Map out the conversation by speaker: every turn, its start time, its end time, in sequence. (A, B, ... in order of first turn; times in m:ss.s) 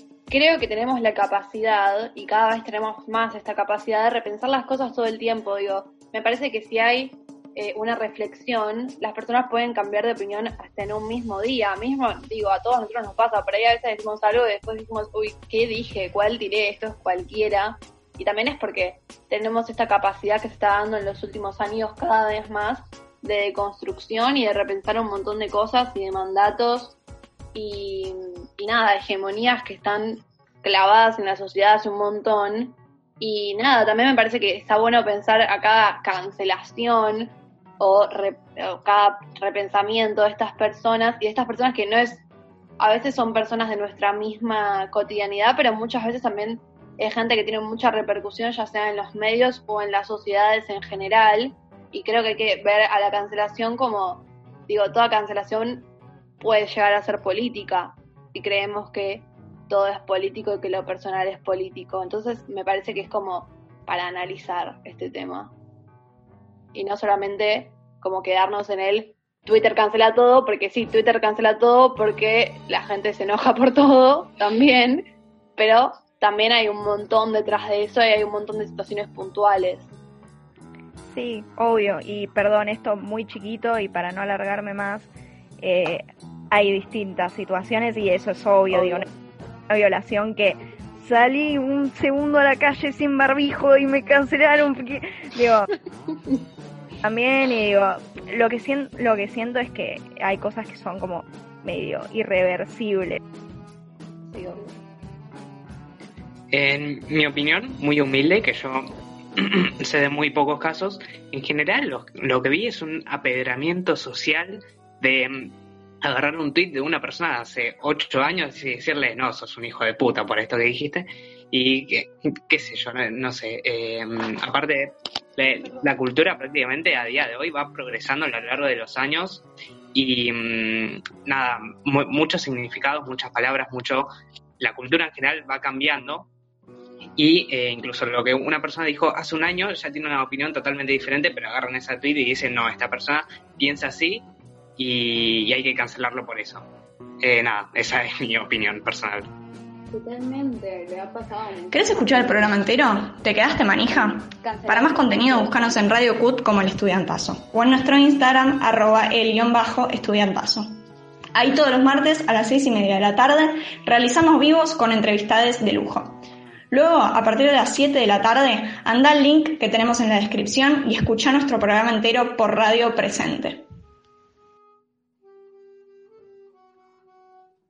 0:00.3-0:27.0 A
0:27.5-0:42.2 A
0:42.8-0:55.9 A
0:56.4-1:05.5 A
1:06.7-1:15.0 A
1:15.6-1:19.9 A
1:21.1-1:29.1 B
1:28.7-1:29.0 A
1:29.7-1:35.7 B
1:37.0-1:43.2 B
1:44.3-1:44.7 A
1:46.5-1:48.8 C
1:49.4-1:55.5 C
1:56.0-2:14.1 C
2:14.6-2:16.3 C
2:17.2-2:24.2 C
2:24.8-2:26.6 C
2:27.2-2:29.3 C
2:29.9-2:32.6 D
2:31.7-2:40.7 E
2:34.4-2:35.9 D
2:41.3-2:46.2 E
2:46.7-2:53.6 E